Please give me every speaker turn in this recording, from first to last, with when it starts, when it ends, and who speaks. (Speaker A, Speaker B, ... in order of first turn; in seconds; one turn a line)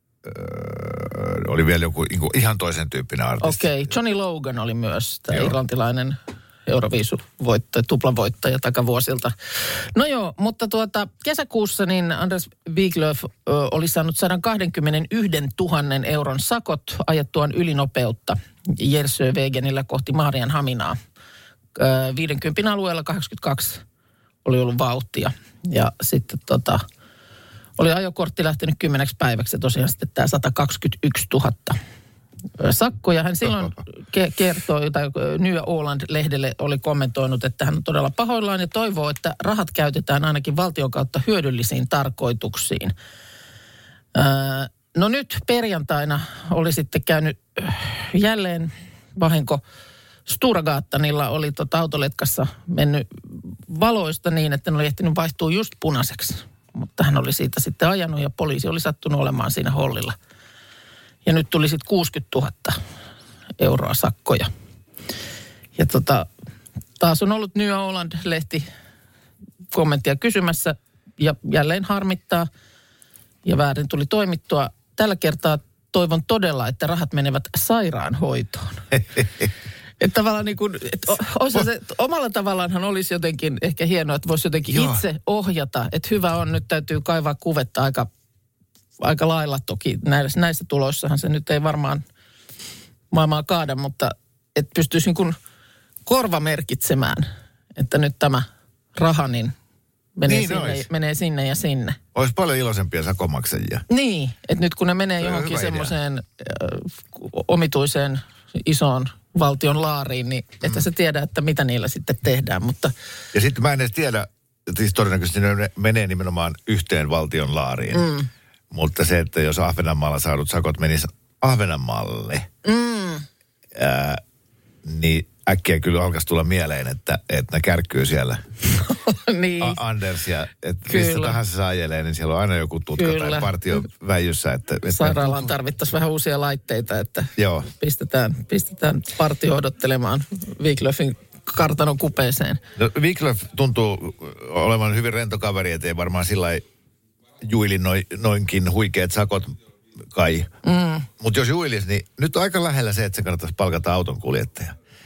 Speaker A: 0.2-3.7
Speaker B: 3.4-9.3
Speaker B: 9.9-21.0
Speaker B: 21.8-23.8
Speaker B: 24.4-26.8
Speaker B: 27.8-31.8
Speaker B: 32.6-42.9
Speaker B: 44.1-49.6
Speaker B: 50.3-60.1
Speaker B: 61.2-62.8
Speaker B: 63.6-64.5
Speaker B: 65.8-66.3
Speaker B: 67.0-68.7
Speaker B: 69.7-72.5
Speaker B: 73.4-78.9
Speaker B: 80.0-88.1
Speaker A: 84.7-85.0
Speaker B: 89.0-92.0
Speaker B: 93.1-95.4
Speaker B: 96.0-99.5
Speaker B: 100.2-102.0
Speaker A: 100.3-100.9
Speaker A: 102.1-103.8
Speaker B: 103.9-112.9
Speaker A: 105.2-105.9
Speaker A: 113.3-118.1
Speaker B: 117.9-118.3
Speaker A: 118.7-122.5
Speaker B: 122.6-123.2
Speaker A: 123.7-124.2
Speaker A: 124.8-128.4
Speaker B: 128.8-129.8
Speaker A: 129.6-135.5
Speaker B: 130.9-131.4
Speaker B: 133.0-133.5
Speaker B: 134.9-142.6
Speaker A: 137.4-137.7
Speaker A: 142.8-146.6
Speaker A: 147.4-149.6
Speaker A: 150.1-150.5
Speaker B: 150.6-151.1
Speaker A: 151.2-154.7